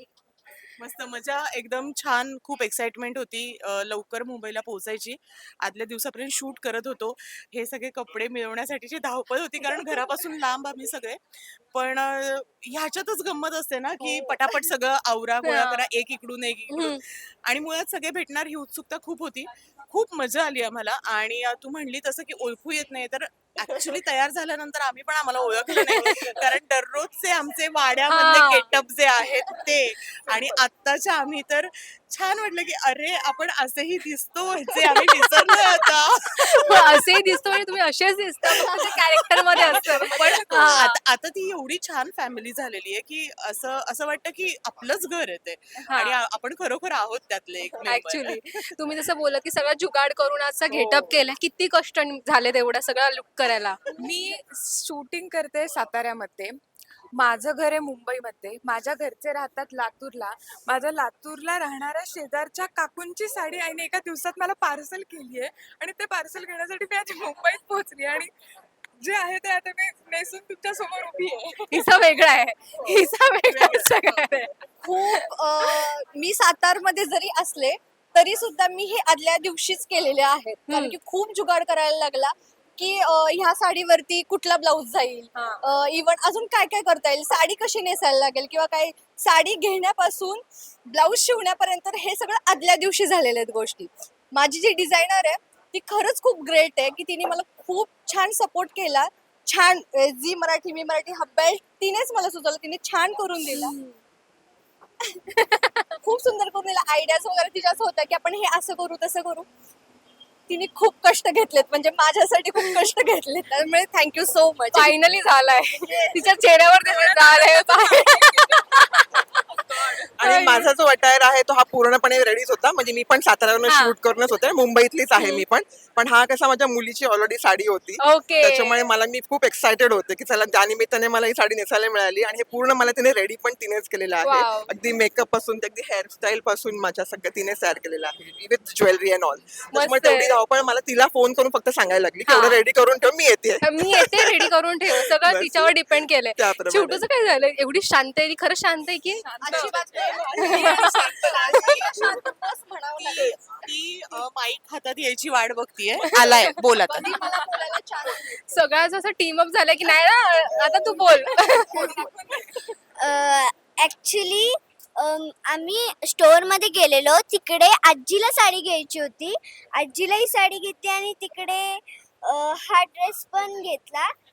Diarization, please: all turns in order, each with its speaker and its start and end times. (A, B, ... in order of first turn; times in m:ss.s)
0:00.8-0:11.2 A
0:11.7-0:37.0 A
0:15.4-0:15.8 B
0:16.7-0:17.0 B
0:25.7-0:26.3 B
0:28.1-0:28.7 B
0:36.4-0:41.0 B
0:39.5-0:48.4 A
0:45.9-0:46.2 B
0:47.8-0:53.8 B
0:54.0-0:56.6 C
0:57.2-1:08.3 C
1:09.0-1:11.9 C
1:11.7-1:14.5 B
1:13.4-1:14.3 A
1:14.8-1:43.7 D
1:15.1-1:15.8 B
1:20.7-1:21.0 B
1:25.3-1:25.6 B
1:43.5-1:43.9 B
1:45.4-1:45.8 B
1:46.0-1:49.5 D
1:50.5-1:55.0 D
1:54.7-2:00.7 B
1:55.8-1:58.4 D
2:00.2-2:25.8 E
2:03.6-2:03.9 B
2:05.2-2:05.4 B
2:08.0-2:08.8 B
2:14.2-2:14.7 B
2:19.7-2:20.4 B
2:22.3-2:22.6 B
2:23.6-2:29.8 B
2:26.3-2:27.1 E
2:29.3-2:31.7 C
2:29.4-2:33.5 D
2:30.3-2:31.3 B
2:33.0-2:37.2 A
2:36.1-2:36.5 B
2:36.8-2:38.4 D
2:38.5-2:42.0 B
2:40.6-2:42.5 D
2:41.7-2:42.6 C
2:43.0-2:54.1 F